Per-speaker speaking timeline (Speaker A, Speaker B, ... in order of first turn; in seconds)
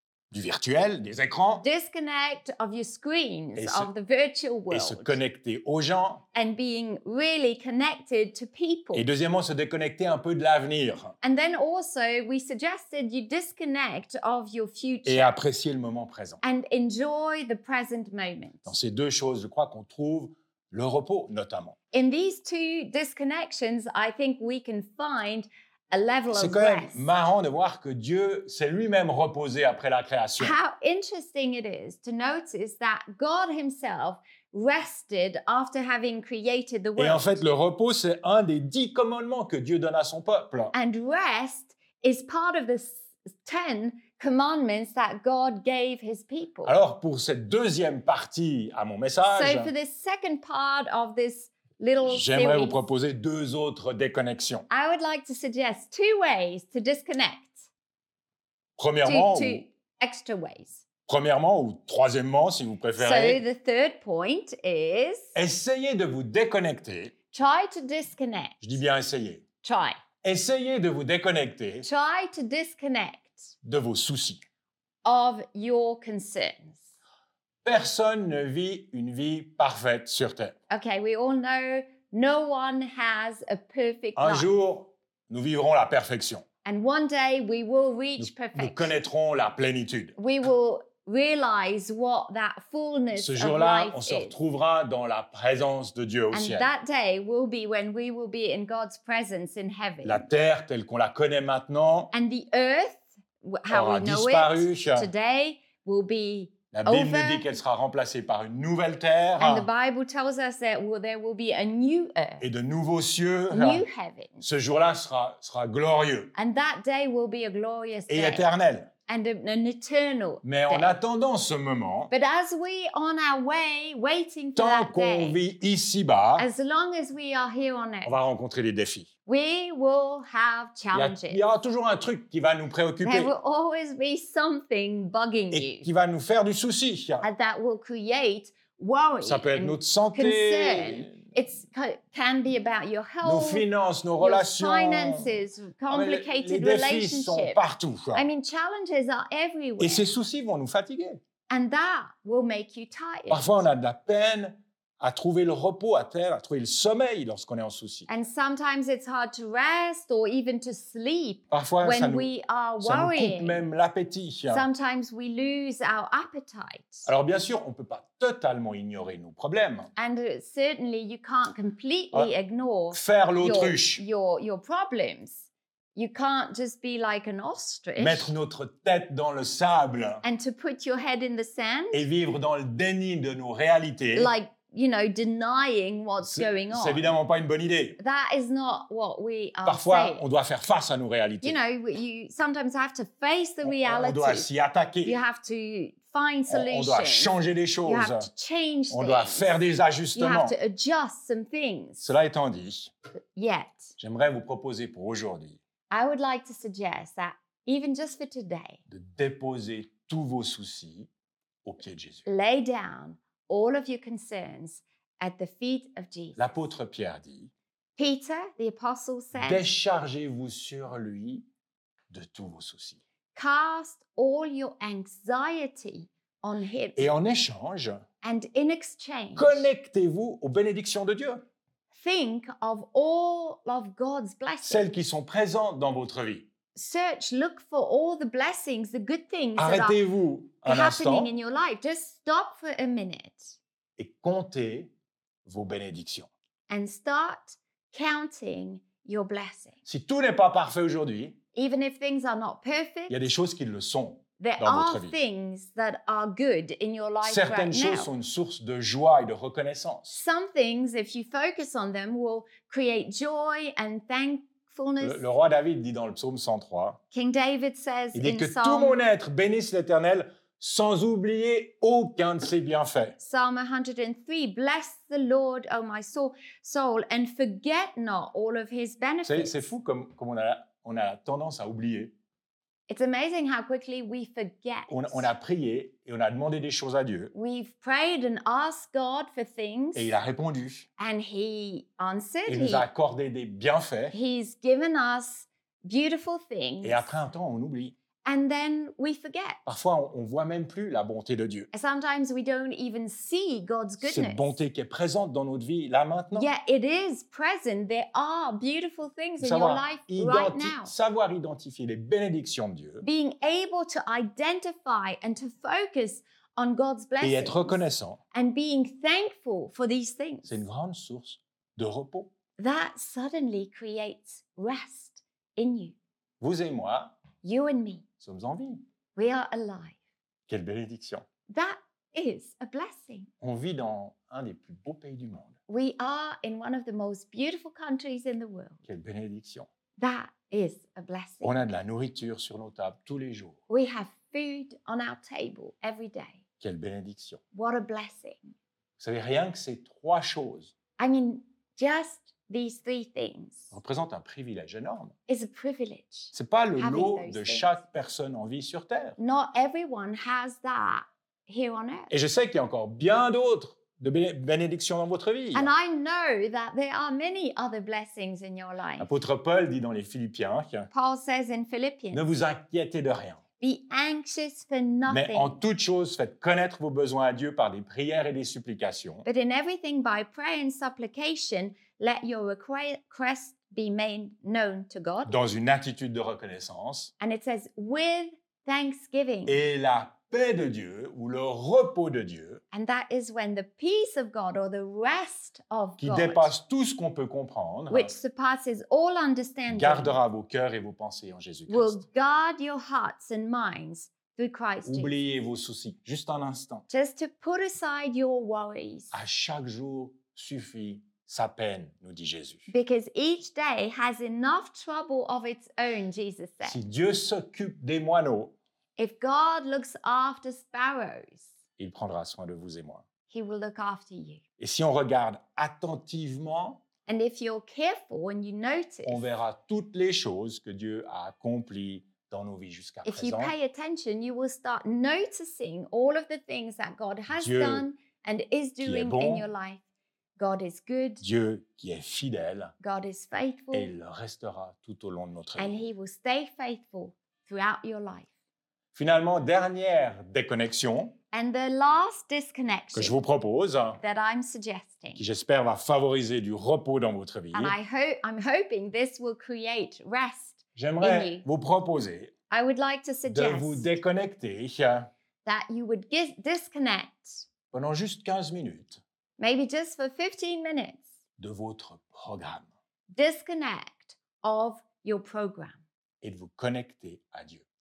Speaker A: 0.3-1.7, 3.5-3.9, 4.7-6.2, 8.9-11.2, 15.1-16.4, 18.7-21.8, 26.3-30.6, 37.0-40.7, 46.6-49.7, 52.0-54.7, 58.8-59.7, 61.1-63.4, 65.3-67.2, 68.6-69.5, 70.2-71.9, 73.6-74.4, 77.6-80.6, 84.2-86.5, 88.2-90.1, 93.2-96.7, 100.0-102.1, 103.7-105.1, 106.7-109.7, 112.4-113.9, 114.4-116.3, 118.1-118.9, 120.4-122.1, 124.6-126.5, 128.1-129.1, 130.9-133.3, 135.5-137.3, 139.2-141.2, 143.2-148.3, 149.8-151.2, 153.3-158.1, 161.5-164.7, 167.1-169.9, 172.9-174.0, 178.0-180.2, 181.9-184.3, 186.2-188.0, 189.7-191.6, 193.6-195.2, 196.5-198.3, 198.9-200.6, 202.0-202.9, 204.0-205.6, 208.9-211.1, 211.6-212.2, 216.4-217.5, 219.3-221.4, 222.1-223.0, 227.0-228.1, 229.4-231.4, 234.6-236.5, 239.6-241.3, 244.0-244.9, 245.4-246.3, 249.9-251.4, 253.1-255.2, 257.2-260.2, 265.0-267.0, 268.1-273.2, 279.2-282.1, 284.9-287.3, 289.9-290.9, 292.5-294.2, 296.8-298.0, 299.7-301.7, 304.0-306.5, 309.4-313.1, 317.2-318.2, 320.4-322.3, 326.4-327.2, 328.2-328.8, 330.5-331.3, 333.4-335.6, 338.9-339.7, 341.4-343.6, 346.6-347.4, 349.0-350.8, 353.7-355.1, 356.3-359.2, 362.1-365.7, 369.0-370.9, 372.1-373.5, 375.1-379.3, 385.3-387.1, 389.5-392.6, 396.0-398.1, 399.7-402.1, 404.9-406.9, 409.1-412.7, 416.6-418.6, 421.8-423.1, 424.6-426.9, 429.1-433.6, 437.3-437.9, 438.8-439.5, 441.2-442.8, 443.7-445.8, 448.9-451.2, 452.9-454.0, 455.2-457.8, 460.8-462.3, 463.3-465.1, 467.7-469.0, 471.4-472.7, 476.2-477.6
Speaker B: 1.6-5.2, 6.3-9.1, 11.2-15.3, 16.4-18.7, 21.9-27.1, 30.4-37.4, 40.7-46.8, 49.2-52.8, 54.7-57.6, 59.0-60.9, 63.0-65.3, 67.3-68.8, 69.6-70.0, 71.8-73.5, 75.0-76.8, 80.7-84.5, 86.6-89.0, 90.2-94.4, 96.3-100.3, 102.1-107.6, 109.4-112.5, 113.5-114.4, 116.3-118.5, 119.1-121.0, 122.1-125.4, 126.4-128.2, 129.2-131.4, 133.0-135.9, 137.2-143.7, 144.2-147.6, 148.1-150.1, 151.5-153.6, 158.1-163.7, 164.5-167.1, 170.0-178.3, 180.2-182.1, 184.1-187.2, 188.0-190.2, 191.4-194.5, 195.0-199.6, 200.2-202.1, 203.3-204.0, 205.9-208.8, 212.3-216.4, 218.0-219.7, 223.3-227.1, 228.2-229.7, 231.9-234.9, 236.7-240.0, 240.6-243.6, 246.7-249.7, 251.5-253.2, 254.4-258.1, 260.1-265.2, 267.1-269.0, 273.2-279.5, 282.9-285.3, 287.3-290.2, 291.0-292.9, 294.1-297.1, 298.2-299.6, 301.7-304.6, 306.3-310.9, 313.0-320.6, 322.6-326.0, 327.3-328.2, 329.1-329.9, 331.5-333.3, 335.7-338.8, 340.0-341.6, 343.7-346.4, 347.5-348.6, 351.0-353.7, 355.3-357.8, 359.2-362.1, 365.5-369.1, 370.9-372.2, 373.6-375.6, 379.2-385.3, 387.2-389.6, 392.7-396.5, 397.9-400.2, 401.7-405.2, 406.9-409.2, 412.7-416.8, 419.0-421.5, 423.2-424.4, 427.1-429.3, 433.0-439.8, 440.4-441.2, 442.8-443.9, 445.6-448.3, 451.3-453.2, 454.0-455.2, 457.5-461.5, 462.5-463.9, 465.4-467.4, 469.4-471.1, 473.1-475.8